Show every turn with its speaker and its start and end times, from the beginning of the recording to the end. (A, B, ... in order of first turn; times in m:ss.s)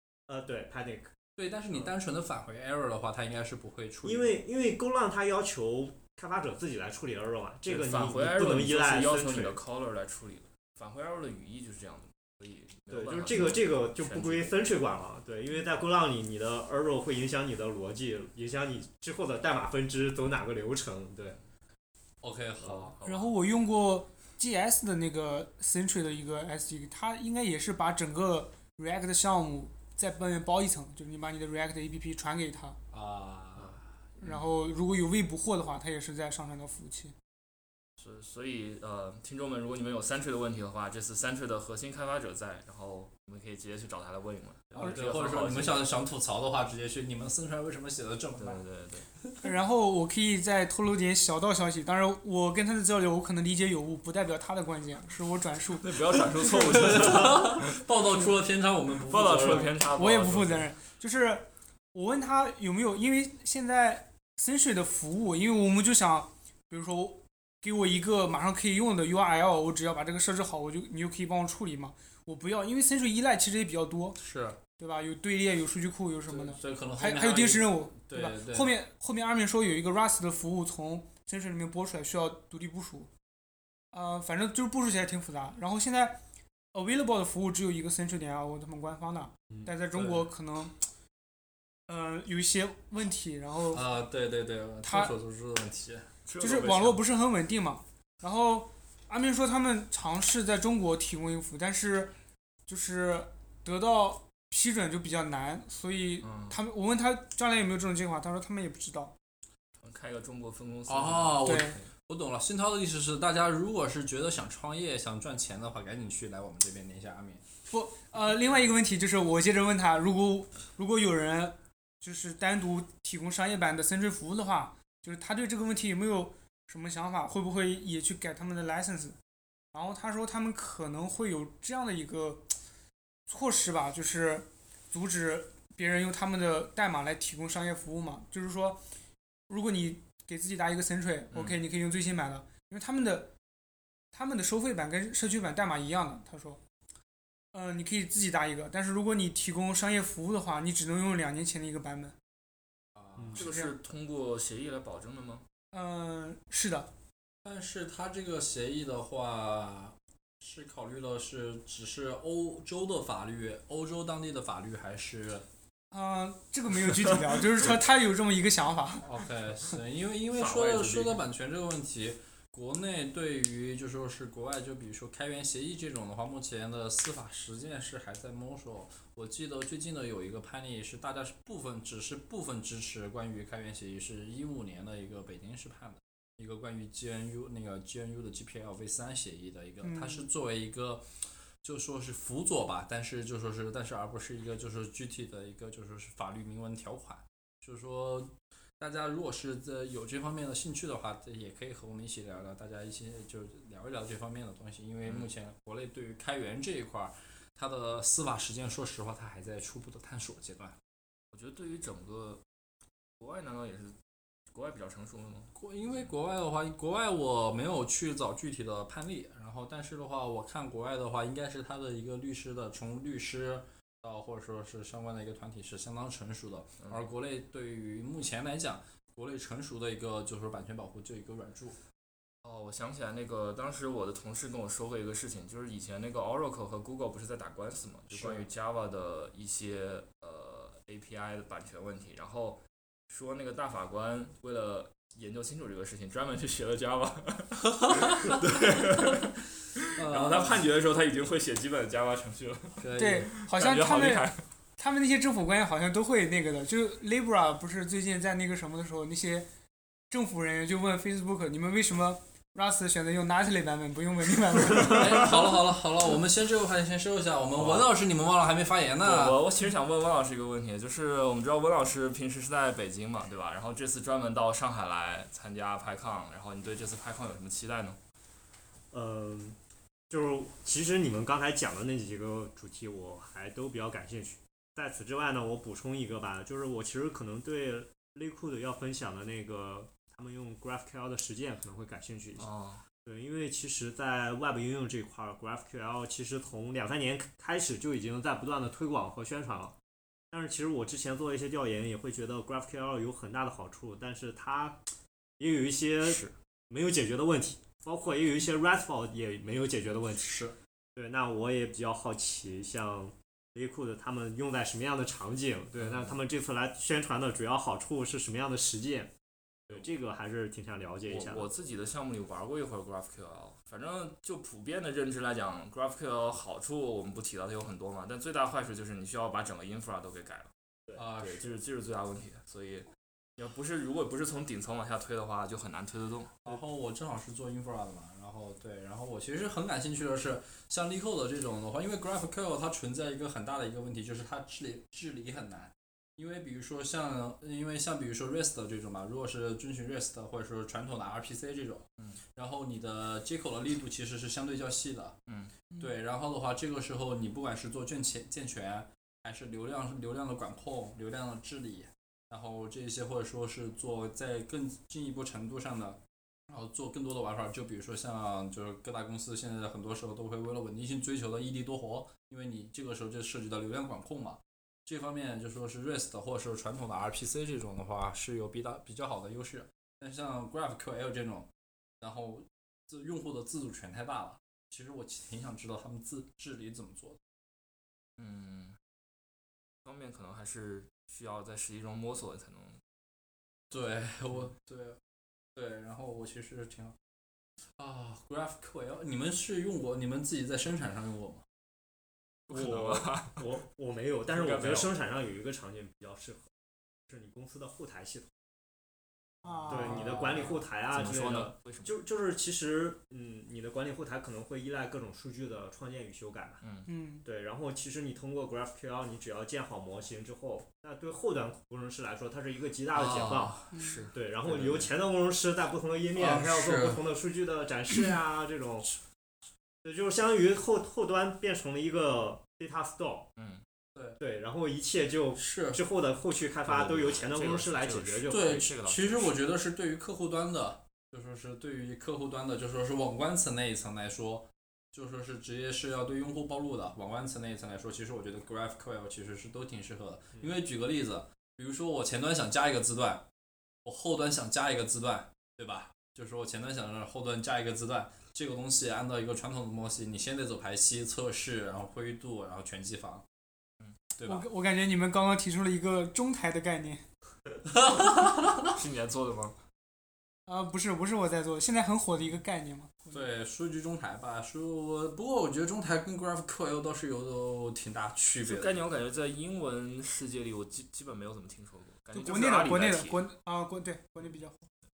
0:00.3-0:01.1 A
0:01.4-0:04.4 B
0:04.0-0:09.6 A
0:07.6-0:14.5 C
0:12.9-0:21.4 A
0:22.2-0:23.0 B
0:22.6-0:22.9 A
0:22.8-0:23.3 C
0:23.0-0:32.8 D
0:32.9-0:33.8 B
0:34.2-0:37.1 D
0:38.0-0:45.8 C
0:44.7-0:48.6 B
0:48.4-0:49.1 C
0:49.4-0:55.9 D
0:55.8-0:57.8 C
0:56.6-0:59.8 B
0:59.0-1:00.7 C
1:00.0-1:14.2 D
1:14.2-1:14.6 B
1:14.8-1:23.1 D
1:16.3-1:18.7 B
1:23.9-1:26.2 D
1:26.7-1:30.8 D
1:29.9-1:30.3 B
1:31.9-1:33.8 D
1:33.7-1:36.1 B
1:34.8-1:35.1 D
1:36.3-1:37.0 C
1:36.4-1:42.1 D
1:42.7-1:49.1 D
1:46.2-1:46.6 C
1:49.8-1:51.8 C
1:50.9-1:57.4 B
1:51.4-1:51.8 D
1:57.7-2:09.2 D
2:09.7-2:12.6 D
2:13.3-2:18.8 D
2:19.5-2:23.3 D
2:21.3-2:21.6 C
2:24.1-2:26.6 D
2:27.5-2:32.2 D
2:32.9-2:33.4 B
2:33.3-2:35.4 C
2:33.4-2:33.7 D
2:35.7-2:36.9 D
2:37.4-2:45.4 B
2:45.9-2:49.1 D
2:49.0-3:30.8 B
2:50.3-2:51.2 C
3:09.8-3:10.3 D
3:31.3-3:32.4 C
3:33.2-3:34.0 C
3:34.5-3:35.5 C
3:35.5-3:51.8 B
3:52.4-4:14.4 C
3:58.1-3:58.5 B
4:07.7-4:08.4 B
4:09.9-4:10.6 B
4:12.8-4:13.3 B
4:13.0-4:19.5 D
4:20.1-4:25.3 D
4:24.8-4:29.4 B
4:27.6-4:27.9 C
4:29.0-4:38.0 C
4:38.9-4:39.6 A
4:40.1-4:52.5 A
4:52.4-4:52.8 C
4:53.0-4:59.8 A
5:00.3-5:04.8 A
5:05.4-5:10.4 A
5:06.0-5:06.3 C
5:10.2-5:10.6 B
5:11.0-5:19.1 A
5:15.8-5:16.2 C
5:19.7-5:21.5 A
5:21.0-5:30.5 C
5:30.9-5:31.5 B
5:31.2-5:36.4 C
5:36.4-5:55.2 B
5:55.3-5:55.5 C
5:55.8-6:21.5 B
6:22.0-6:27.2 B
6:28.2-6:28.8 C
6:29.8-6:32.8 C
6:33.7-6:35.0 B
6:35.5-6:37.0 B
6:37.7-6:41.4 B
6:42.5-6:43.5 C
6:42.5-6:46.5 A
6:44.3-6:44.9 C
6:47.1-6:48.3 A
6:49.4-6:50.2 D
6:49.7-6:56.6 A
6:49.8-6:51.9 C
6:56.6-6:56.9 C
6:56.9-6:57.2 D
6:57.2-7:03.5 A
7:02.9-7:04.9 C
7:03.7-7:04.0 D
7:04.1-7:08.9 A
7:06.1-7:07.0 B
7:09.8-7:13.3 A
7:13.4-7:13.6 C
7:13.9-7:14.2 B
7:14.2-7:18.7 A
7:15.4-7:15.8 B
7:16.6-7:19.3 C
7:18.3-7:33.2 B
7:33.8-7:43.2 B
7:44.2-7:44.4 B
7:44.2-7:47.0 D
7:47.7-7:48.7 B
7:48.6-7:49.6 C
7:50.5-7:53.2 D
7:53.1-7:58.8 B
7:58.4-8:03.2 C
8:02.1-8:04.7 D